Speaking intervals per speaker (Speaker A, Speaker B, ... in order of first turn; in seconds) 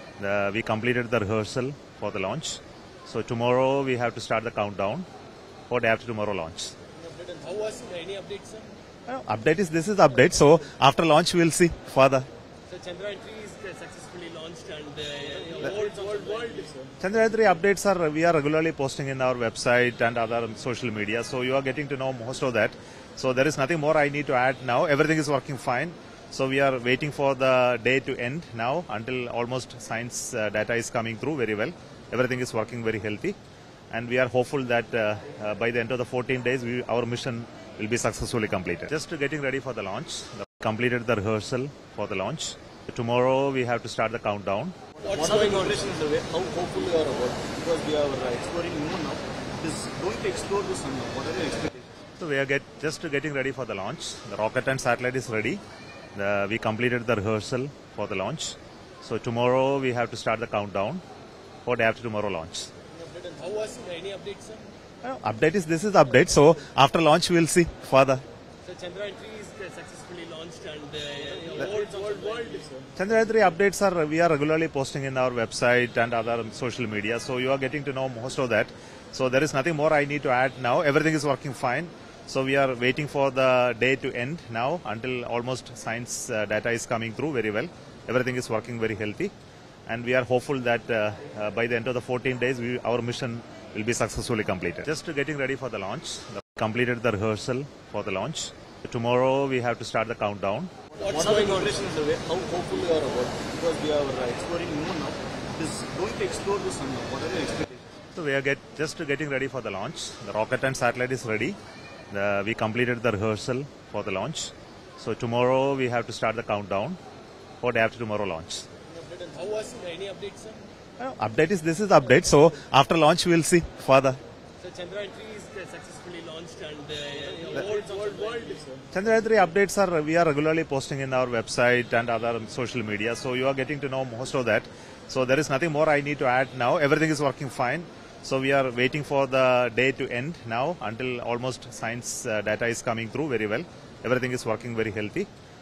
Speaker A: 0.2-5.1, 5.7-6.7, 9.1-12.3, 17.0-33.4, 33.9-44.8, 52.2-55.6, 56.1-61.0, 61.6-62.7, 65.0-68.2, 73.0-89.3, 89.9-100.7, 108.1-111.6, 112.1-117.0, 117.6-118.7, 121.0-124.2, 128.9-145.3
Speaker B: 7.0-8.7, 12.7-16.9, 45.1-45.6, 63.0-64.7, 68.7-72.9, 119.0-120.7, 124.6-128.8
Speaker C: 45.1-51.9, 101.0-107.8